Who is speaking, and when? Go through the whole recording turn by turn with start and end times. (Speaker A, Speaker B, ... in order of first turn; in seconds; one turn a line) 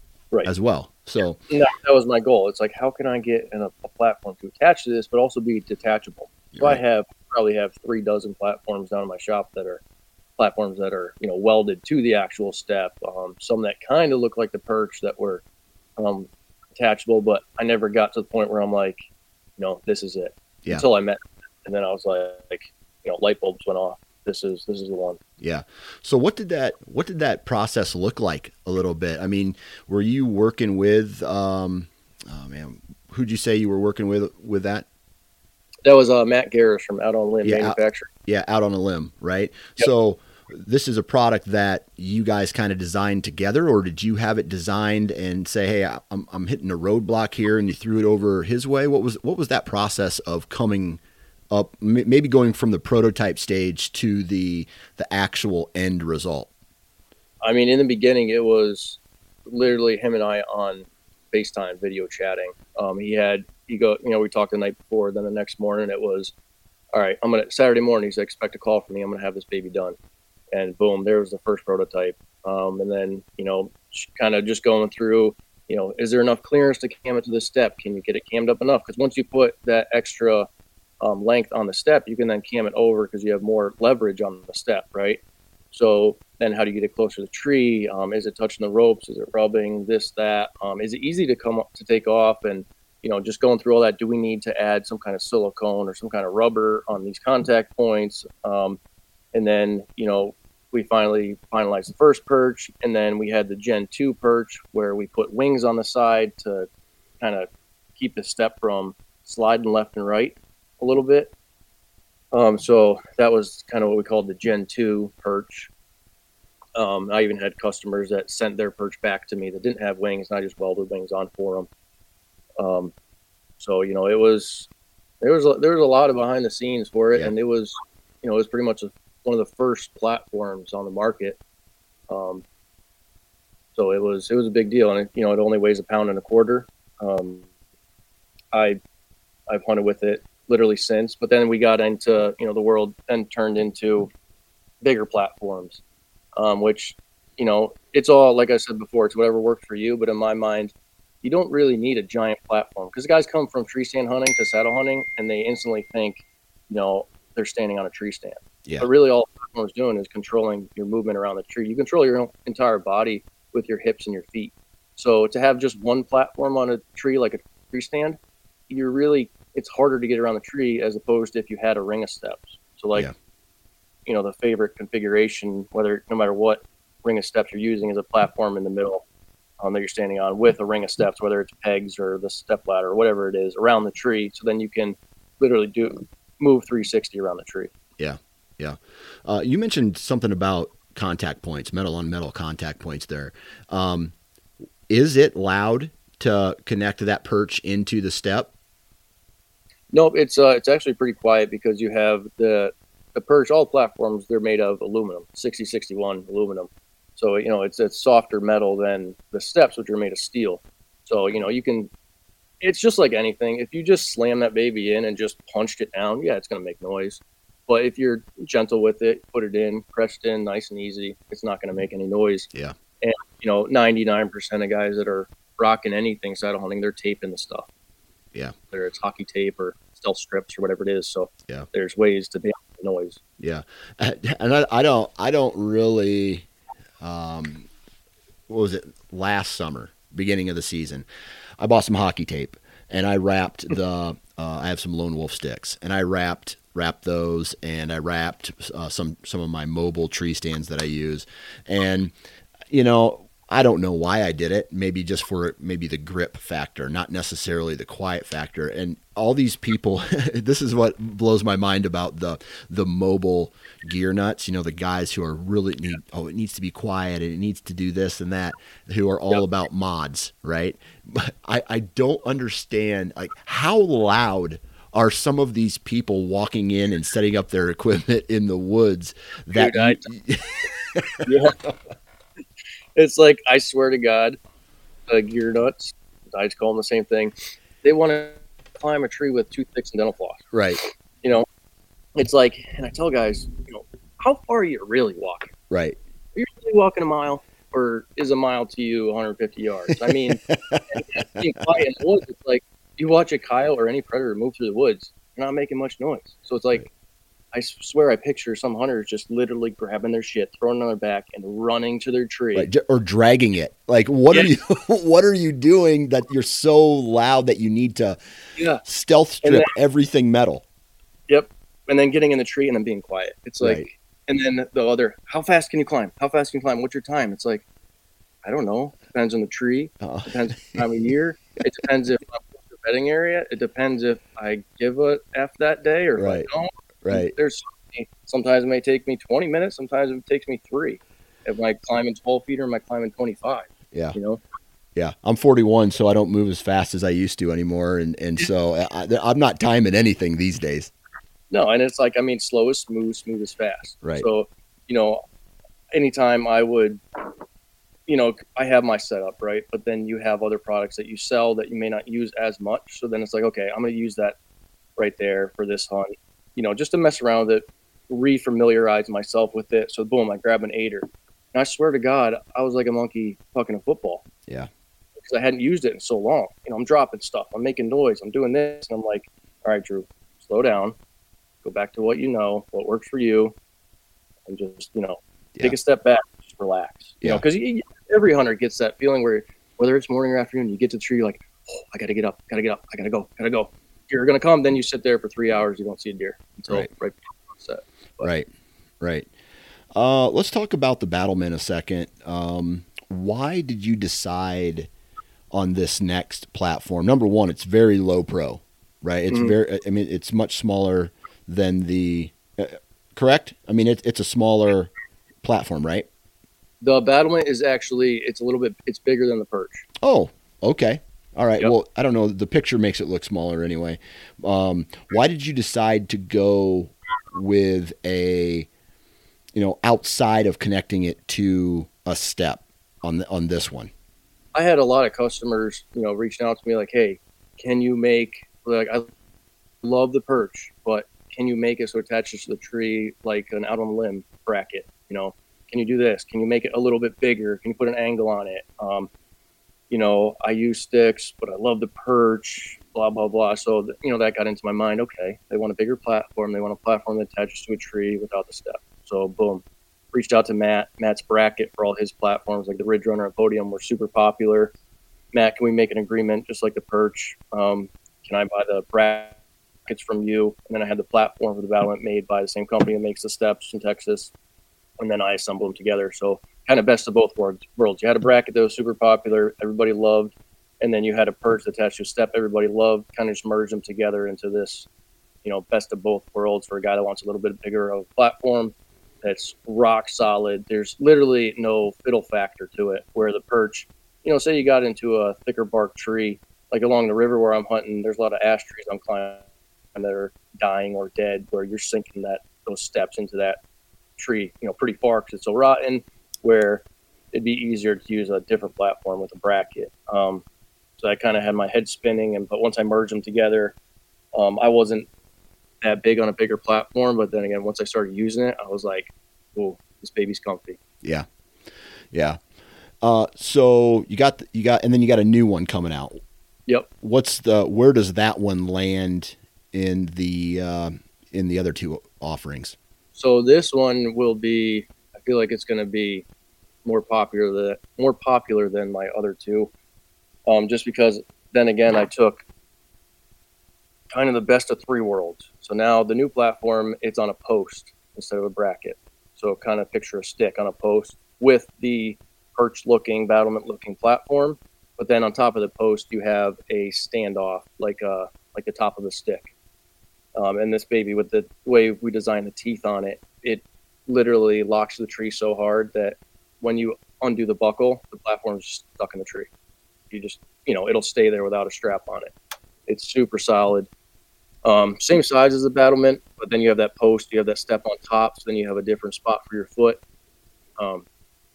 Speaker A: 0.4-1.4
Speaker B: 1.5-9.8
Speaker A: 6.5-6.8
Speaker B: 10.4-15.4
Speaker B: 16.0-19.0
Speaker B: 19.6-25.2
Speaker A: 25.4-34.9
Speaker B: 35.8-38.1
Speaker A: 37.4-51.0
Speaker A: 51.5-56.5
Speaker B: 57.4-66.3
Speaker B: 66.9-70.0
Speaker B: 70.5-80.5
Speaker B: 81.0-85.2
Speaker B: 85.7-98.8
Speaker B: 99.3-106.7
Speaker B: 107.2-111.3
Speaker B: 112.3-115.7
Speaker B: 116.8-121.7
Speaker B: 122.6-122.9
Speaker B: 123.6-124.7
Speaker B: 125.2-131.4
Speaker B: 132.1-132.4
Speaker B: 133.7-137.5
Speaker B: 138.5-138.8
Speaker B: 139.5-144.1
Speaker B: 144.8-145.8
Speaker B: 146.3-168.2
Speaker B: 168.7-173.1
Speaker B: 174.1-179.1
Speaker B: 179.6-187.7
Speaker A: 188.0-194.1
Speaker A: 194.9-198.5
Speaker B: 199.9-211.9
Speaker B: 212.6-222.5
Speaker B: 223.0-227.7
Speaker B: 228.7-233.2
Speaker A: 233.4-236.5
Speaker A: 237.0-237.7
Speaker A: 238.5-241.0
Speaker A: 241.6-252.1
Speaker A: 252.7-281.3
Speaker B: 279.5-280.0
Speaker B: 281.2-281.6
Speaker B: 282.9-284.4
Speaker B: 285.1-290.4
Speaker A: 290.5-290.8
Speaker B: 292.1-295.5
Speaker A: 295.7-296.0
Speaker B: 296.3-306.9
Speaker A: 300.5-301.2
Speaker B: 307.5-312.7
Speaker A: 312.5-318.2
Speaker B: 318.6-318.8
Speaker A: 318.8-320.6
Speaker B: 321.3-327.6
Speaker A: 323.6-323.9
Speaker B: 328.4-344.4
Speaker A: 330.0-330.8
Speaker A: 336.2-336.5
Speaker A: 337.0-337.3
Speaker A: 344.9-350.9
Speaker B: 351.5-355.2
Speaker A: 354.0-354.3
Speaker B: 355.9-357.3
Speaker B: 358.1-364.4
Speaker B: 365.0-374.2
Speaker B: 375.1-380.9
Speaker B: 381.6-383.5
Speaker B: 384.5-398.3
Speaker A: 398.2-398.5
Speaker A: 399.0-399.3
Speaker A: 399.9-404.9
Speaker A: 405.5-414.9
Speaker B: 409.3-409.6
Speaker A: 415.4-416.1
Speaker B: 416.8-419.9
Speaker A: 420.0-428.7
Speaker A: 429.5-433.9
Speaker B: 434.5-439.1
Speaker B: 439.8-449.1
Speaker B: 449.9-464.7
Speaker B: 465.3-474.3
Speaker B: 475.0-484.9
Speaker B: 485.4-503.6
Speaker B: 504.2-510.4
Speaker B: 511.0-513.7
Speaker B: 514.3-515.1
Speaker B: 515.8-520.8
Speaker A: 522.1-522.4
Speaker A: 523.0-526.2
Speaker A: 527.0-532.8
Speaker B: 533.1-536.2
Speaker B: 536.8-539.7
Speaker B: 540.5-542.4
Speaker B: 544.1-559.5
Speaker B: 560.4-569.5
Speaker B: 570.1-572.3
Speaker B: 572.9-573.9
Speaker B: 574.6-580.0
Speaker B: 580.8-581.0